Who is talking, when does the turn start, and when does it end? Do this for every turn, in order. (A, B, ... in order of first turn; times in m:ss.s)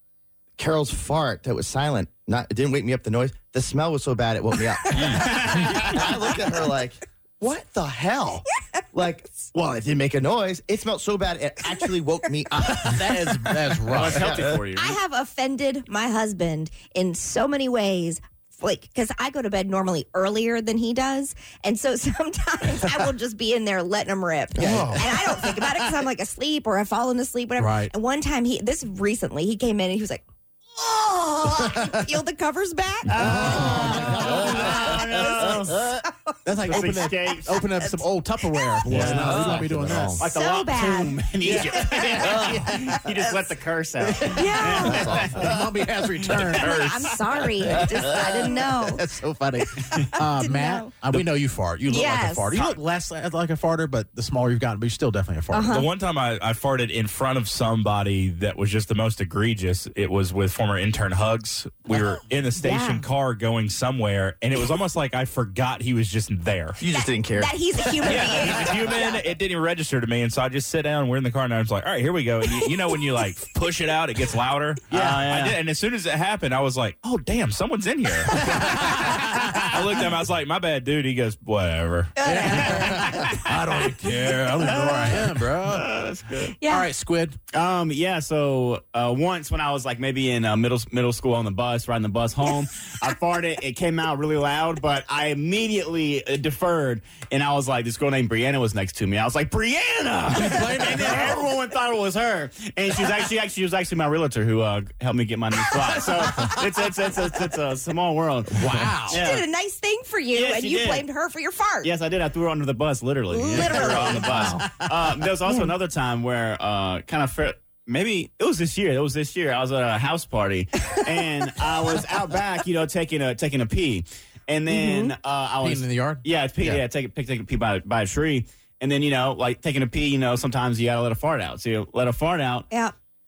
0:00.6-0:13.1 A
0:05.0-0:06.0 B
0:12.5-0:14.5 C
0:13.9-0:15.0 B
0:14.0-0:14.6 A
0:14.7-0:30.2 D
0:24.6-0:25.9 C
0:24.6-0:25.0 A
0:27.6-0:27.9 C
0:30.7-0:33.6 D
0:33.1-0:35.8 B
0:33.2-0:34.9 C
0:33.2-0:35.6 A
0:36.4-0:40.2 C
0:36.7-0:37.5 B
0:38.7-0:39.0 D
0:38.8-0:40.2 A
0:38.9-0:39.3 B
0:40.2-0:45.5 B
0:40.2-0:42.2 D
0:41.4-0:42.9 C
0:42.2-0:42.6 A
0:43.1-0:43.5 D
0:44.0-0:55.7 C
0:44.3-0:45.2 D
0:44.7-0:45.6 A
0:46.3-0:49.0 D
0:49.6-0:50.9 D
0:51.8-0:52.7 D
0:55.5-0:55.9 D
0:55.7-1:06.8 E
1:02.5-1:03.0 D
1:06.8-1:08.7 A
1:06.9-1:09.2 D
1:08.0-1:22.8 E
1:12.4-1:13.1 D
1:14.9-1:15.2 C
1:14.9-1:15.6 B
1:18.5-1:19.6 C
1:22.2-1:23.2 D
1:22.2-1:25.8 C
1:22.5-1:24.0 B
1:24.0-1:24.6 E
1:24.6-1:26.5 B
1:26.6-1:26.9 D
1:26.6-1:27.4 C
1:27.5-1:49.5 B
1:40.3-1:41.5 C
1:46.2-1:46.5 C
1:48.5-1:49.2 C
1:49.1-1:51.9 D
1:50.3-1:51.0 B
1:51.8-2:12.7 B
1:53.3-1:54.7 D
1:53.5-1:54.8 C
1:55.4-1:55.7 D
2:04.7-2:05.1 D
2:05.6-2:06.8 C